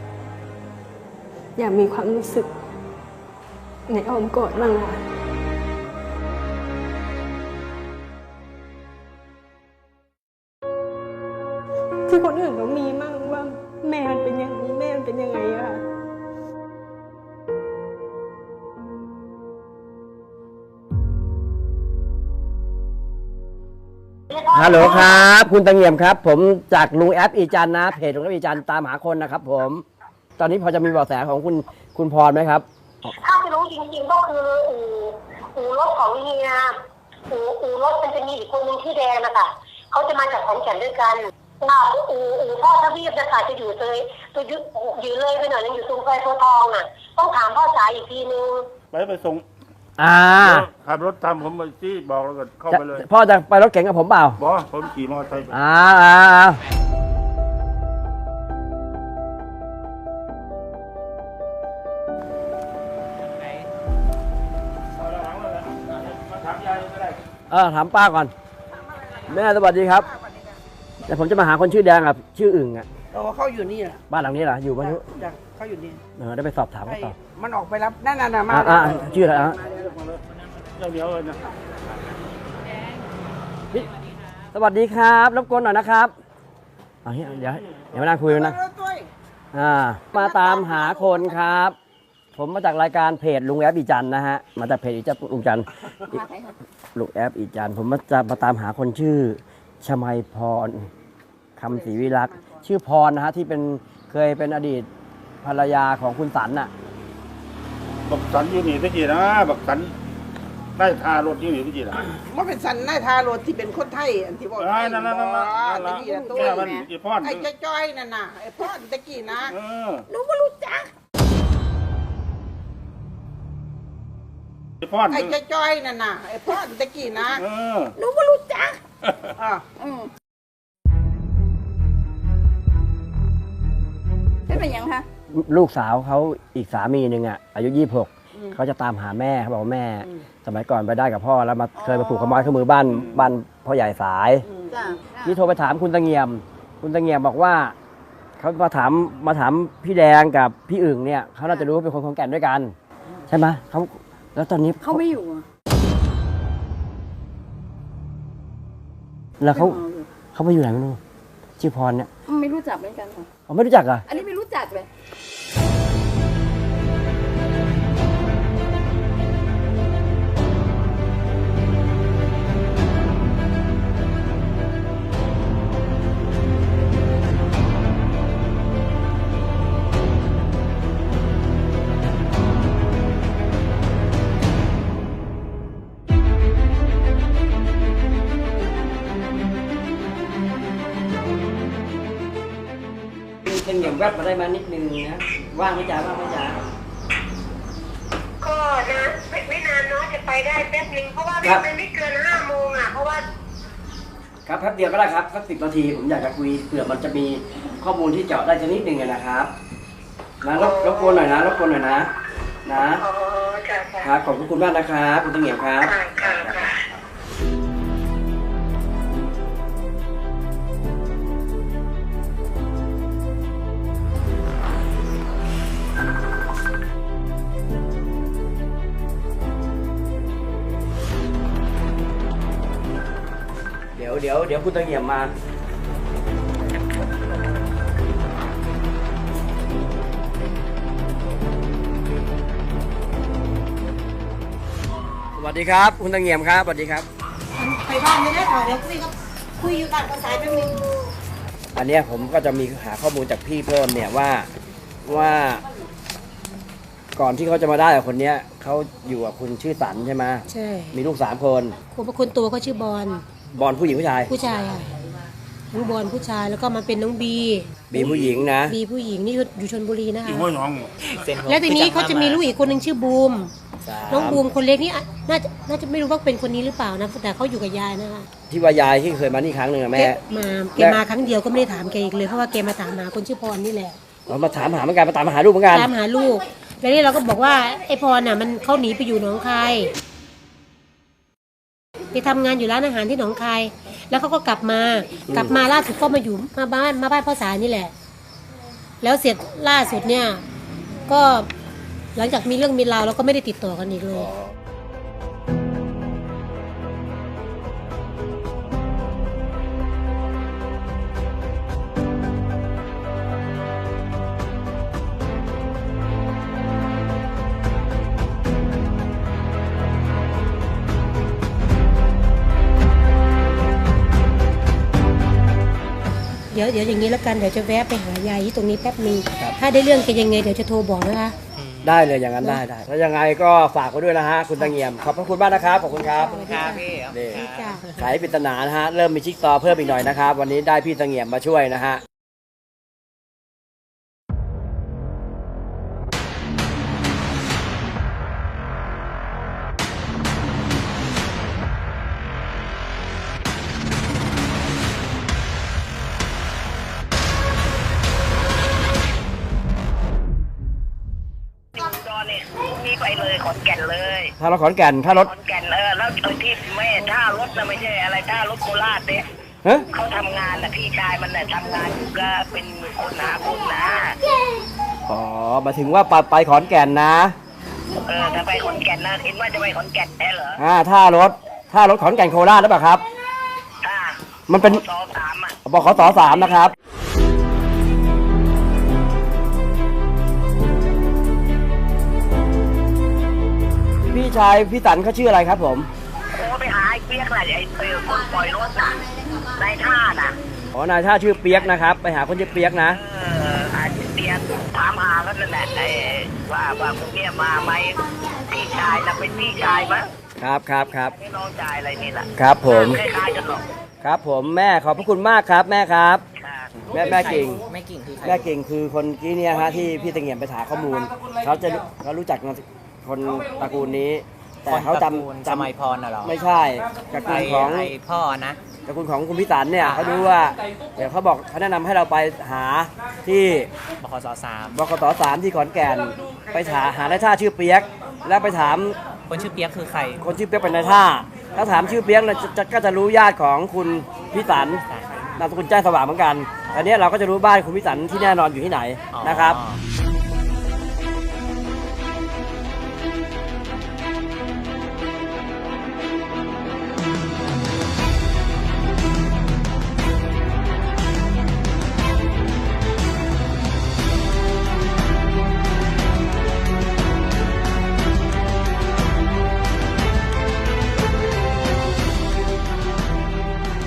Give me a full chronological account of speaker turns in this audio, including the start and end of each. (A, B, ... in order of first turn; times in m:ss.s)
0:01.6-0:02.5 A
0:03.9-0:05.0 A
0:12.1-0:15.8 A
0:24.3-0:25.2 B
0:24.5-0:29.8 C
0:30.4-0:33.1 C
0:33.2-0:36.7 B
0:37.3-0:48.7 B
0:48.9-0:49.4 D
0:50.0-0:50.7 C
0:50.5-0:52.9 D
0:52.7-0:54.4 C
0:54.4-0:55.5 D
0:55.5-0:56.6 C
1:06.3-1:07.0 D
1:07.5-1:08.3 C
1:09.3-1:10.1 C
1:11.0-1:12.9 C
1:13.1-1:14.0 E
1:14.1-1:15.0 C
1:14.9-1:16.0 E
1:16.2-1:17.2 C
1:16.9-1:19.8 E
1:18.5-1:19.6 C
1:20.8-1:21.4 D
1:24.5-1:26.1 C
1:27.0-1:28.6 C
1:28.3-1:29.1 E
1:29.5-1:31.8 C
1:30.2-1:31.2 E
1:32.4-1:36.2 C
1:36.1-1:36.6 F
1:36.9-1:40.9 C
1:41.6-1:44.9 C
1:45.4-1:46.7 C
1:48.1-1:49.9 D
1:50.8-1:52.0 D
1:52.1-1:56.6 E
1:54.6-1:57.5 D
1:56.1-1:56.9 F
1:57.2-1:59.5 E
1:59.5-2:00.0 D
2:04.9-2:05.4 D
2:05.1-2:07.4 E
2:07.4-2:07.9 D
2:09.4-2:09.6 E
2:09.8-2:10.1 F
2:14.5-2:15.1 F
2:15.3-2:24.5 C
2:21.8-2:22.5 F
2:24.7-2:25.4 F
2:25.2-2:27.8 C
2:28.4-2:32.7 C
2:33.3-2:35.1 C
2:34.8-2:35.4 F
2:39.4-2:39.8 C
2:39.5-2:40.1 F
2:40.3-2:41.0 C
2:41.6-2:42.1 C
2:42.2-2:43.3 F
2:43.5-2:44.0 C
2:44.1-2:44.9 F
3:13.4-3:16.6 C
3:18.4-3:23.2 G
3:24.4-3:29.5 C
3:30.4-3:32.1 C
3:30.6-3:31.2 B
3:32.6-3:33.0 C
3:33.0-3:34.1 B
3:34.0-3:36.0 C
3:35.9-3:36.8 B
3:54.0-3:55.3 C
4:05.4-4:07.1 C
4:07.6-4:11.0 G
4:11.8-4:14.5 C
4:15.0-4:15.6 C
4:17.2-4:21.8 C
4:20.5-4:21.0 G
4:21.9-4:23.2 G
4:23.5-4:24.3 C
4:24.3-4:24.9 G
4:25.7-4:30.5 G
4:27.9-4:28.8 C
4:30.5-4:30.9 D
4:31.1-4:32.4 H
4:31.4-4:33.5 G
4:33.8-4:34.4 C
4:34.1-4:38.3 G
4:38.5-4:40.2 C
4:39.9-4:44.0 G
4:44.3-4:45.9 C
4:45.7-4:49.9 G
4:52.1-4:57.9 G
4:55.3-4:55.6 C
4:59.0-5:00.4 G
5:01.1-5:01.5 G
5:02.2-5:04.3 G
5:26.5-5:31.4 G
5:31.6-5:31.9 H
5:31.8-5:36.5 C
5:36.0-5:37.8 G
5:36.4-5:38.1 H
5:37.1-5:42.0 C
6:01.8-6:04.3 I
6:04.4-6:05.3 C
6:05.2-6:09.2 I
6:09.9-6:14.2 I
6:15.1-6:17.4 C
6:18.1-6:20.6 I
6:20.6-6:23.0 C
6:23.8-6:25.5 I
6:24.5-6:24.8 C
6:25.6-6:26.7 C
6:34.1-6:35.9 C
6:36.4-6:40.4 I
6:40.7-6:43.0 C
6:42.9-6:50.1 I
6:50.4-6:51.2 C
6:51.1-6:53.6 I
6:52.4-6:53.0 C
6:54.0-6:56.2 C
6:56.4-6:56.7 I
6:56.9-6:57.6 C
6:56.9-6:58.5 H
6:58.2-7:05.7 C
7:04.7-7:06.3 H
7:06.2-7:07.9 C
7:07.2-7:08.6 H
7:08.9-7:13.7 C
7:09.8-7:10.2 H
7:14.0-7:14.8 H
7:14.7-7:19.0 C
7:19.3-7:20.2 H
7:20.2-7:24.8 C
7:24.9-7:25.2 H
7:25.4-7:29.6 C
7:29.1-7:29.8 H